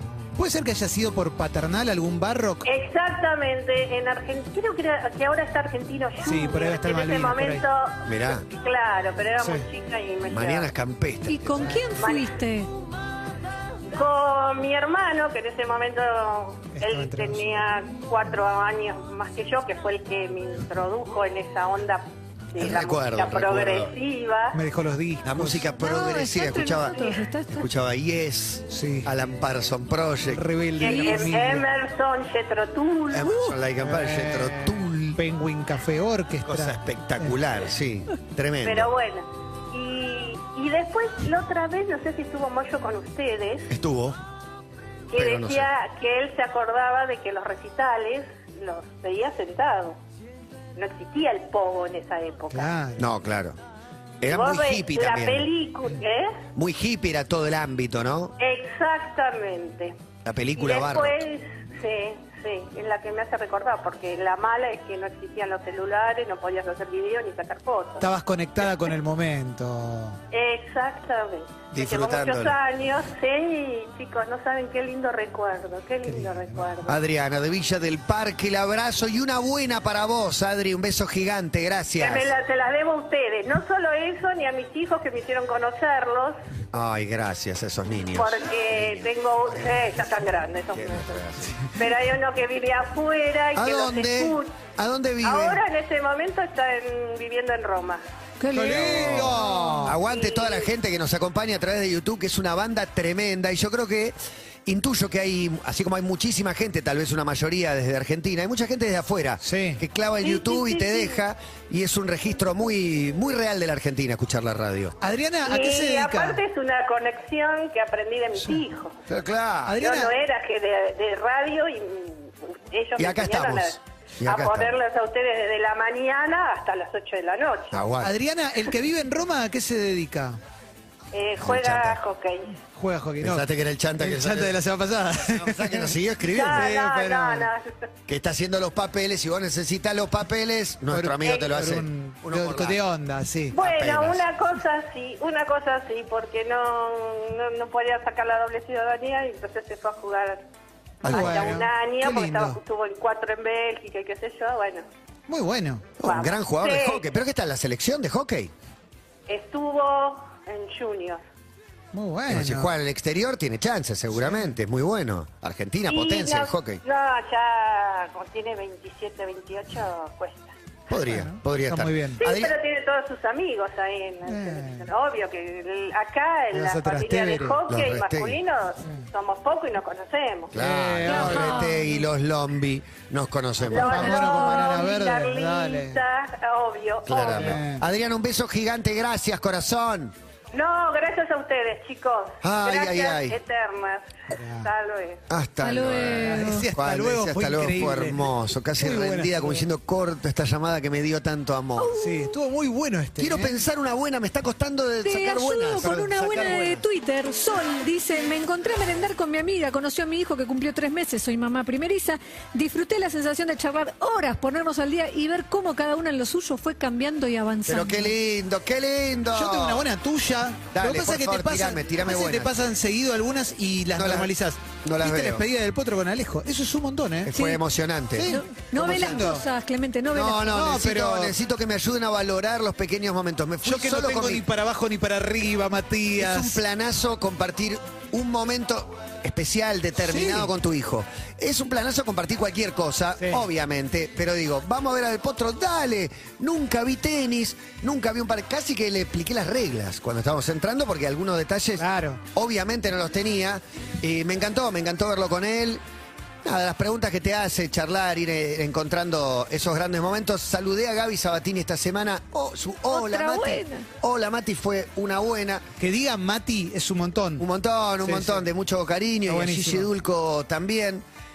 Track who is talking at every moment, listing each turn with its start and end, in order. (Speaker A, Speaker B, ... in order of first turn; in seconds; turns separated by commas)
Speaker A: 0.3-2.7, Speaker B: 2.6-10.7, Speaker A: 6.2-7.6, Speaker C: 8.1-8.4, Speaker A: 9.4-9.7, Speaker C: 10.3-11.7, Speaker D: 11.3-12.7, Speaker B: 12.0-12.3, Speaker B: 13.9-24.6, Speaker A: 16.7-17.4, Speaker C: 22.6-23.9, Speaker A: 24.5-25.7, Speaker C: 25.2-30.4, Speaker D: 25.8-27.7, Speaker A: 28.7-29.1, Speaker A: 30.3-31.6, Speaker B: 30.8-33.3, Speaker D: 30.8-31.3, Speaker C: 33.1-35.2, Speaker A: 33.8-37.4, Speaker C: 36.5-38.9, Speaker B: 38.6-43.7, Speaker C: 43.7-44.2, Speaker B: 45.1-50.0, Speaker C: 45.1-45.7, Speaker B: 50.8-52.7, Speaker A: 52.5-53.1, Speaker C: 53.0-53.6, Speaker C: 54.2-55.5, Speaker B: 54.3-56.4, Speaker C: 56.5-58.3, Speaker B: 58.4-59.9, Speaker C: 60.2-61.2, Speaker B: 60.5-68.1, Speaker A: 68.0-70.2, Speaker B: 70.3-77.0, Speaker C: 71.7-72.6, Speaker A: 76.0-76.7, Speaker C: 76.8-82.3, Speaker B: 82.0-86.4, Speaker C: 86.7-89.9, Speaker B: 88.1-91.2, Speaker C: 90.7-91.6, Speaker B: 91.7-94.6, Speaker C: 93.5-95.6, Speaker B: 95.2-98.0, Speaker D: 98.4-99.4, Speaker A: 98.5-100.0, Speaker C: 98.7-104.1, Speaker B: 99.9-100.7, Speaker C: 104.7-115.0, Speaker A: 109.4-109.8, Speaker B: 110.2-111.2, Speaker A: 115.0-116.4, Speaker B: 115.4-119.0, Speaker C: 119.1-119.8, Speaker A: 119.7-120.1, Speaker B: 119.8-127.8, Speaker C: 123.0-124.7, Speaker C: 127.7-128.1, Speaker A: 128.0-130.4, Speaker B: 131.1-132.6, Speaker C: 131.4-132.0, Speaker A: 132.7-133.4, Speaker C: 133.2-134.6, Speaker A: 134.0-135.9, Speaker C: 135.2-137.5, Speaker B: 136.3-137.7, Speaker C: 138.1-142.8, Speaker A: 140.9-143.5, Speaker C: 143.5-144.2, Speaker B: 143.5-150.4, Speaker C: 151.0-151.6, Speaker A: 151.0-152.6, Speaker B: 151.0-154.8, Speaker A: 155.3-155.8, Speaker C: 156.0-158.5, Speaker B: 156.0-157.0, Speaker B: 159.3-161.2, Speaker A: 161.9-162.7, Speaker C: 162.3-166.8, Speaker A: 164.1-164.5, Speaker B: 165.9-170.5, Speaker C: 170.9-172.5, Speaker A: 171.1-172.2, Speaker B: 172.2-180.5, Speaker A: 174.3-174.9, Speaker A: 176.5-177.6, Speaker C: 177.7-178.4, Speaker C: 180.5-184.5, Speaker A: 180.6-181.9, Speaker D: 181.1-181.8, Speaker A: 183.6-186.0, Speaker B: 183.7-187.6, Speaker C: 187.1-190.1, Speaker A: 187.3-187.8, Speaker B: 190.5-195.2, Speaker C: 192.4-193.4, Speaker A: 194.3-194.7, Speaker C: 195.3-201.9, Speaker D: 195.6-196.7, Speaker A: 195.9-199.7, Speaker D: 201.8-202.3, Speaker A: 201.9-203.6, Speaker C: 203.2-206.8, Speaker D: 205.0-218.1, Speaker C: 217.7-219.8, Speaker A: 219.3-227.3, Speaker C: 220.7-222.5, Speaker C: 223.9-224.3, Speaker C: 224.8-225.4, Speaker C: 227.2-229.3, Speaker D: 227.3-227.6, Speaker A: 228.1-229.4, Speaker D: 228.2-230.7, Speaker C: 230.1-234.4, Speaker A: 230.5-231.3, Speaker A: 233.6-236.6, Speaker C: 236.2-255.8, Speaker A: 240.0-240.5, Speaker A: 243.2-243.4, Speaker A: 251.8-252.2, Speaker C: 256.4-265.6, Speaker D: 262.9-263.9, Speaker A: 265.8-267.4, Speaker C: 267.4-271.0, Speaker A: 268.0-268.4, Speaker A: 269.3-269.9